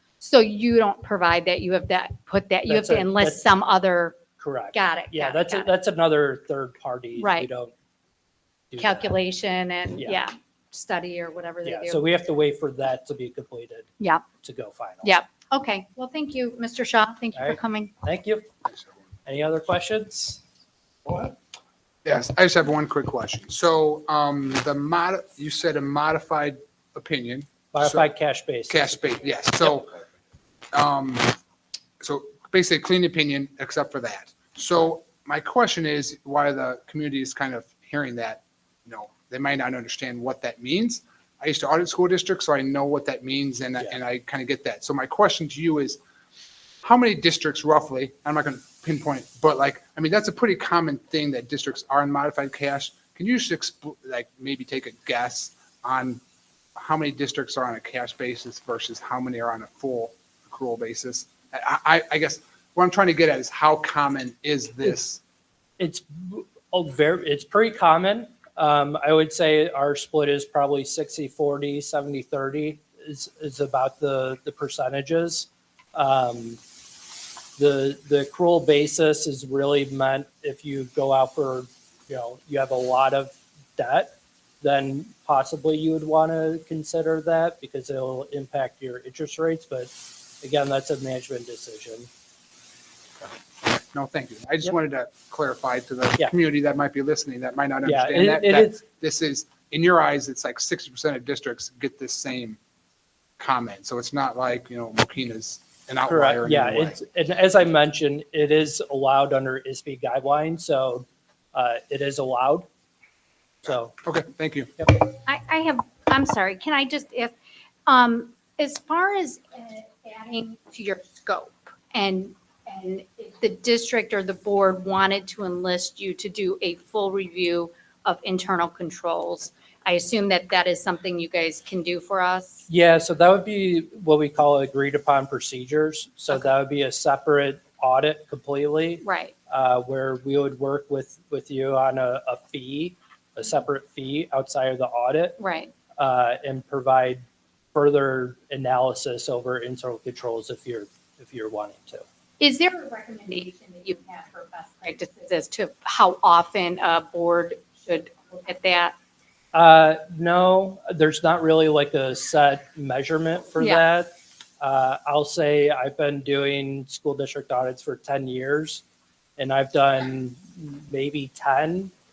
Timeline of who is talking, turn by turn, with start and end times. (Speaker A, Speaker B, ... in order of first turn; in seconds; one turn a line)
Speaker A: 0.2-4.2
Speaker B: 2.7-3.4
Speaker B: 4.4-7.7
Speaker A: 4.7-5.7
Speaker A: 7.2-7.5
Speaker B: 8.7-9.2
Speaker A: 8.8-12.1
Speaker B: 11.6-13.9
Speaker B: 14.4-15.2
Speaker A: 15.0-17.9
Speaker B: 17.3-18.5
Speaker B: 19.2-20.4
Speaker C: 21.1-21.3
Speaker C: 22.0-28.1
Speaker B: 27.7-29.4
Speaker C: 28.7-30.0
Speaker C: 30.7-31.4
Speaker C: 32.0-46.0
Speaker C: 46.8-56.2
Speaker C: 56.8-65.2
Speaker B: 65.8-76.6
Speaker B: 77.6-92.1
Speaker C: 93.7-102.6
Speaker B: 97.8-98.8
Speaker C: 103.4-107.0
Speaker B: 106.0-112.7
Speaker B: 113.6-113.9
Speaker C: 114.0-114.7
Speaker A: 115.2-117.3
Speaker A: 117.9-132.7
Speaker B: 132.7-145.4
Speaker A: 139.0-139.3
Speaker A: 145.4-145.7
Speaker B: 146.0-152.0
Speaker A: 152.4-158.9
Speaker B: 159.5-168.8
Speaker B: 169.4-171.9